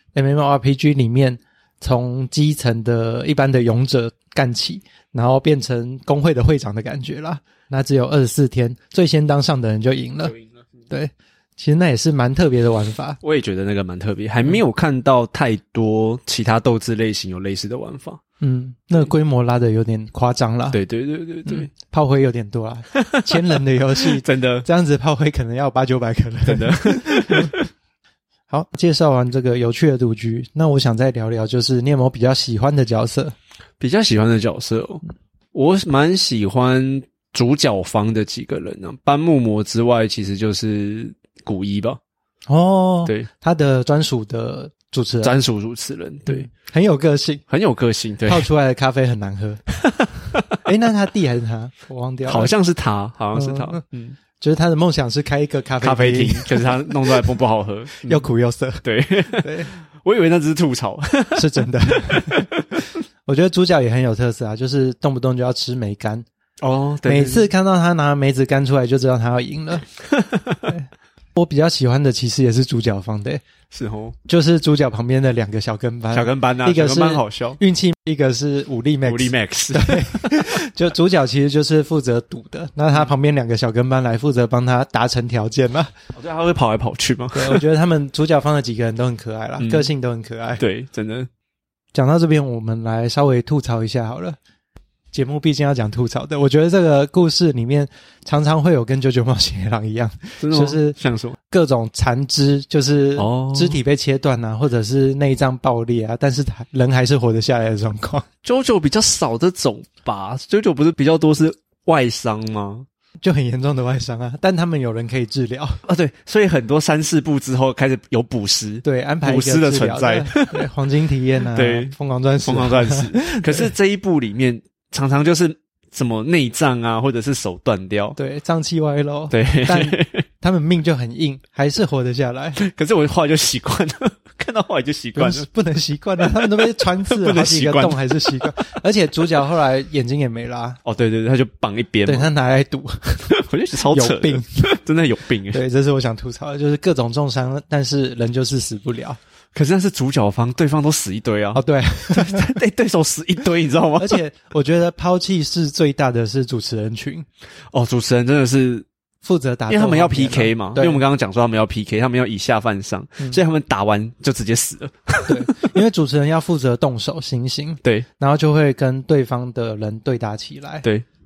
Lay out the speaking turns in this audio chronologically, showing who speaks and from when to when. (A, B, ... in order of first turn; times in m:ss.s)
0:00.2-0:10.4 A
0:10.9-0:13.2 A
0:13.2-0:18.2 B
0:18.4-0:20.8 A
0:20.7-0:21.7 B
0:21.5-0:27.6 A
0:23.0-0:24.7 B
0:26.5-0:27.6 B
0:28.5-0:33.3 A
0:33.8-0:35.0 B
0:35.5-0:42.0 B
0:42.5-0:45.4 A
0:45.2-0:46.5 B
0:46.3-0:47.4 A
0:47.5-0:48.5 B
0:48.3-0:49.6 A
0:49.8-0:50.5 B
0:50.6-0:52.5 A
0:52.3-0:54.2 B
0:53.4-0:53.8 A
0:54.4-0:57.3 A
0:55.8-0:58.3 B
0:58.0-0:59.7 A
0:58.8-1:02.8 B
1:01.4-1:02.5 A
1:03.3-1:06.2 A
1:06.6-1:07.5 B
1:07.0-1:09.9 A
1:10.1-1:10.7 B
1:10.7-1:13.4 A
1:13.7-1:14.2 B
1:14.3-1:25.9 A
1:16.1-1:17.6 B
1:19.0-1:20.5 B
1:26.1-1:27.6 B
1:27.3-1:30.6 A
1:29.6-1:29.9 B
1:30.6-1:31.3 B
1:31.9-1:34.4 A
1:35.1-1:41.0 A
1:40.4-1:41.4 B
1:41.5-1:48.2 A
1:43.2-1:43.8 B
1:48.4-1:52.9 B
1:53.2-1:55.8 A
1:55.9-2:00.7 B
1:58.8-2:03.7 A
2:01.4-2:08.2 B
2:08.2-2:12.6 A
2:09.3-2:10.2 B
2:12.6-2:15.5 B
2:15.2-2:20.8 A
2:16.4-2:18.5 B
2:20.8-2:22.3 B
2:22.1-2:23.3 A
2:23.3-2:25.6 B
2:23.9-2:24.7 A
2:25.5-2:29.2 A
2:29.5-2:34.2 B
2:31.5-2:32.5 A
2:34.0-2:37.3 A
2:37.7-2:38.9 B
2:39.2-2:41.0 A
2:39.7-2:45.5 B
2:45.3-2:50.8 A